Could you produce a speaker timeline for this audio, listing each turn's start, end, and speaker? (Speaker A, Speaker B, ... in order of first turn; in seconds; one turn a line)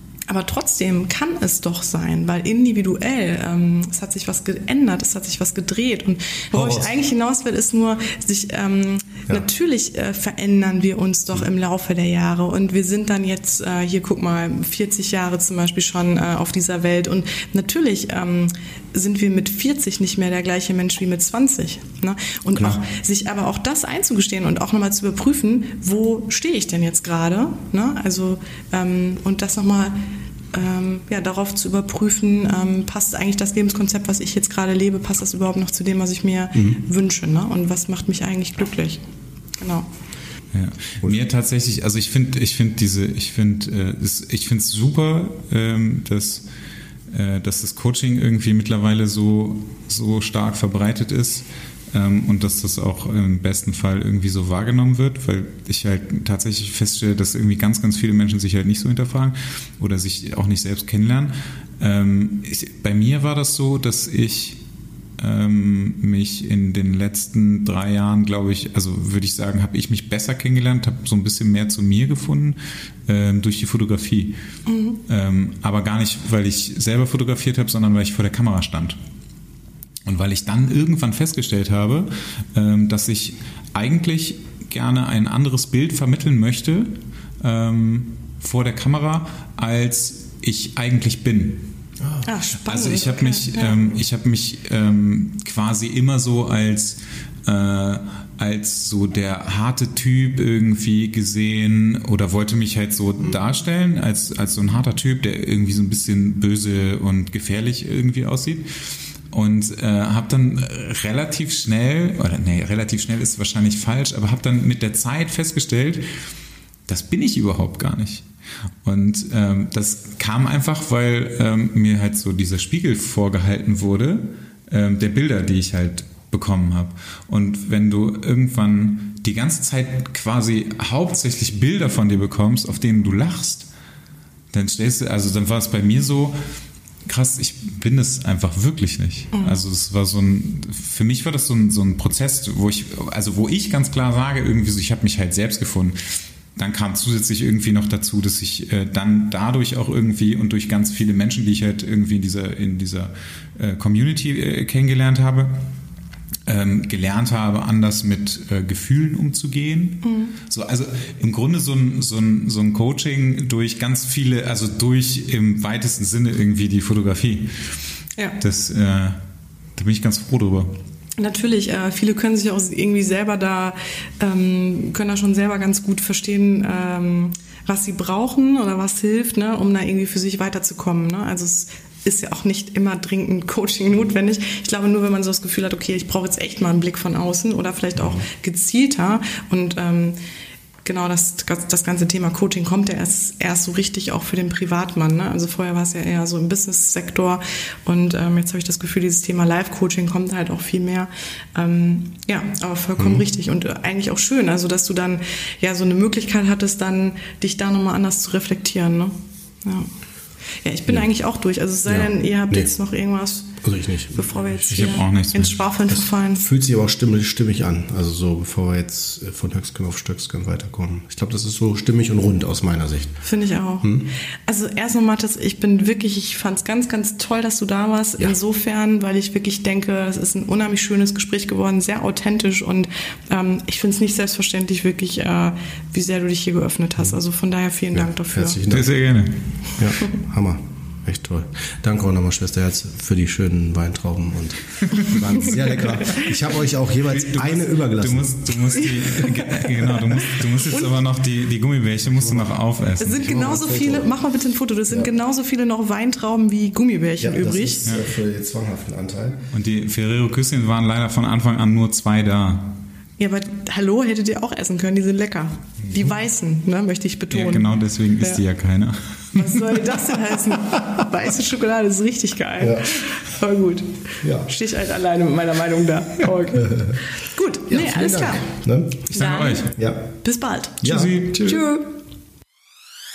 Speaker A: 0.3-29.9
Speaker B: 6.5-6.9
Speaker A: 30.5-39.0
Speaker B: 36.5-36.8
Speaker A: 39.6-39.9
Speaker C: 40.5-46.5
Speaker C: 47.1-64.6
Speaker C: 65.2-74.4
Speaker A: 74.7-75.0
Speaker C: 75.1-79.0
Speaker C: 80.0-91.7
Speaker B: 92.0-92.3
Speaker A: 92.2-93.8
Speaker C: 92.6-108.7
Speaker C: 109.3-116.0
Speaker C: 116.9-118.2
Speaker C: 118.8-133.7
Speaker C: 134.5-136.4
Speaker C: 137.1-155.6
Speaker A: 139.3-139.6
Speaker C: 156.4-167.6
Speaker A: 160.0-160.3
Speaker C: 168.4-169.2
Speaker C: 169.8-170.8
Speaker A: 171.2-190.2
Speaker B: 188.0-188.2
Speaker A: 190.8-209.9
Speaker B: 203.0-203.2
Speaker A: 210.6-213.6
Speaker B: 211.9-212.7
Speaker B: 213.6-215.0
Speaker A: 214.1-216.4
Speaker C: 214.7-215.6
Speaker B: 215.9-223.1
Speaker A: 223.2-238.6
Speaker B: 223.8-224.1
Speaker B: 237.9-238.9
Speaker C: 238.7-239.4
Speaker B: 239.8-249.2
Speaker C: 244.8-245.5
Speaker C: 247.1-253.2
Speaker A: 250.7-250.9
Speaker B: 252.1-252.5
Speaker A: 253.0-257.9
Speaker B: 253.2-254.1
Speaker B: 257.2-259.4
Speaker C: 259.5-262.8
Speaker A: 263.2-268.4
Speaker C: 267.3-269.8
Speaker A: 269.3-278.4
Speaker B: 272.6-273.0
Speaker B: 274.2-274.5
Speaker B: 276.5-277.0
Speaker B: 277.7-279.0
Speaker C: 279.1-279.7
Speaker A: 279.1-281.9
Speaker B: 279.7-280.0
Speaker C: 280.8-281.6
Speaker B: 280.8-281.1